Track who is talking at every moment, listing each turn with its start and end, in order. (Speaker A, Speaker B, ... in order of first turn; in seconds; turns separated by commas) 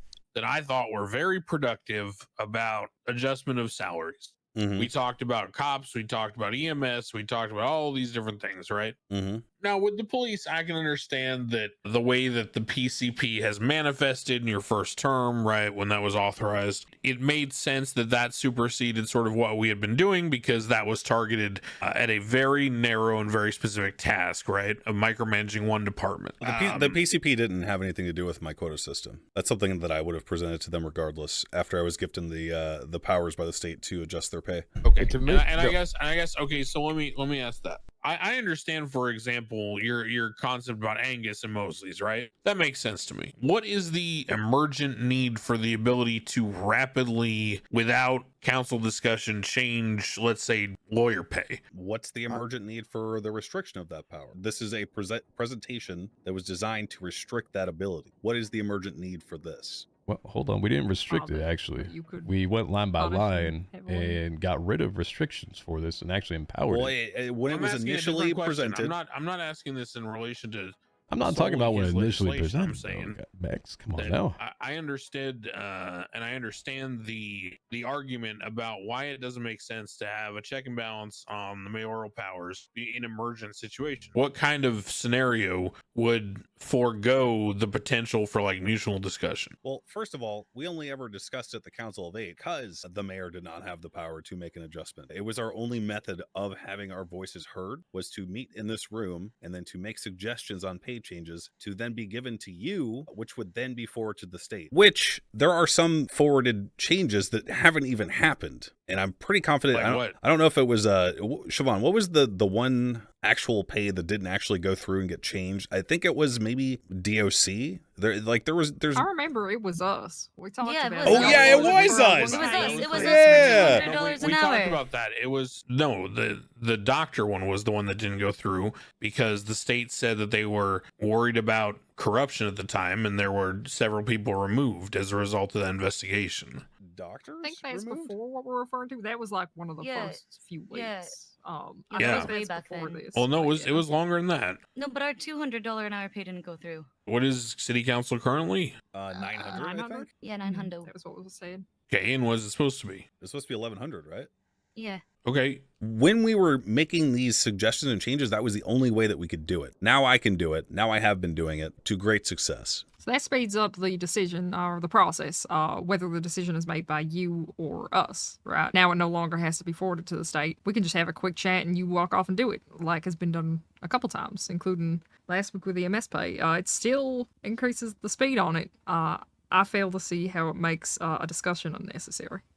Speaker A: 0.3-8.9, Speaker B: 4.5-4.9, Speaker B: 9.1-9.4, Speaker A: 9.6-27.0, Speaker B: 26.4-34.6, Speaker A: 34.8-51.6, Speaker C: 35.0-35.8, Speaker B: 51.7-59.9, Speaker C: 60.1-66.9, Speaker D: 61.1-62.4, Speaker D: 63.0-64.2, Speaker B: 66.7-68.9, Speaker A: 67.5-73.2, Speaker C: 71.1-74.4, Speaker A: 74.0-89.5, Speaker B: 89.6-119.0, Speaker A: 109.7-110.2, Speaker D: 118.9-124.1, Speaker E: 120.6-124.8, Speaker B: 121.0-123.8, Speaker A: 121.2-136.6, Speaker B: 136.8-138.1, Speaker D: 137.4-143.8, Speaker E: 139.8-141.2, Speaker E: 141.9-143.1, Speaker A: 141.9-142.3, Speaker A: 143.1-144.6, Speaker E: 144.7-146.9, Speaker A: 147.1-148.8, Speaker B: 148.9-150.1, Speaker D: 149.1-151.7, Speaker E: 150.2-150.9, Speaker A: 151.9-153.1, Speaker B: 153.2-154.3, Speaker E: 154.7-155.0, Speaker A: 155.2-155.6, Speaker B: 155.8-162.8, Speaker D: 163.0-182.4